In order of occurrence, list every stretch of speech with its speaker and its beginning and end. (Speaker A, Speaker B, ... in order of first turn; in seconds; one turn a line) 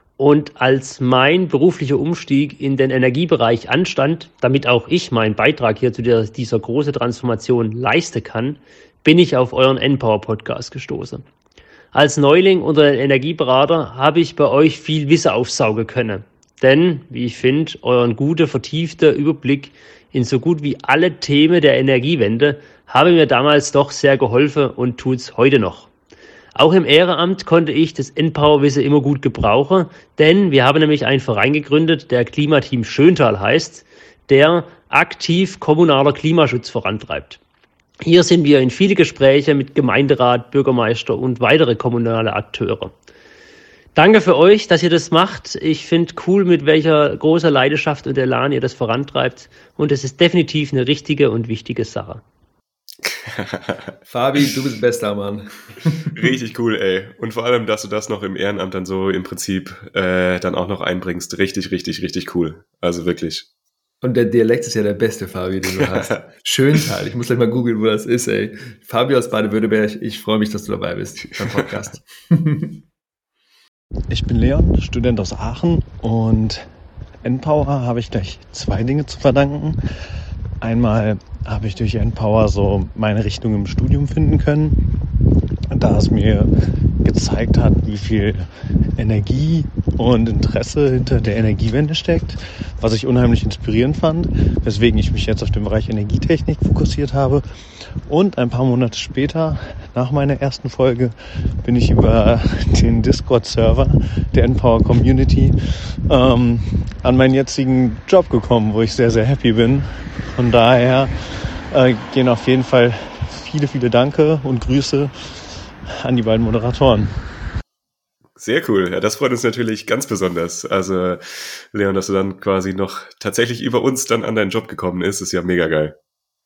Speaker A: 0.2-11.2
Speaker A: 11.9-25.9
Speaker A: 26.5-37.4
Speaker A: 38.0-42.9
Speaker A: 43.9-52.2
Speaker B: 53.0-53.9
Speaker C: 54.1-56.2
Speaker B: 56.1-63.5
Speaker C: 64.0-72.8
Speaker B: 65.7-66.2
Speaker D: 74.1-79.8
Speaker D: 80.6-84.8
Speaker D: 85.7-105.5
Speaker D: 106.1-111.1
Speaker D: 111.7-117.2
Speaker B: 118.4-125.9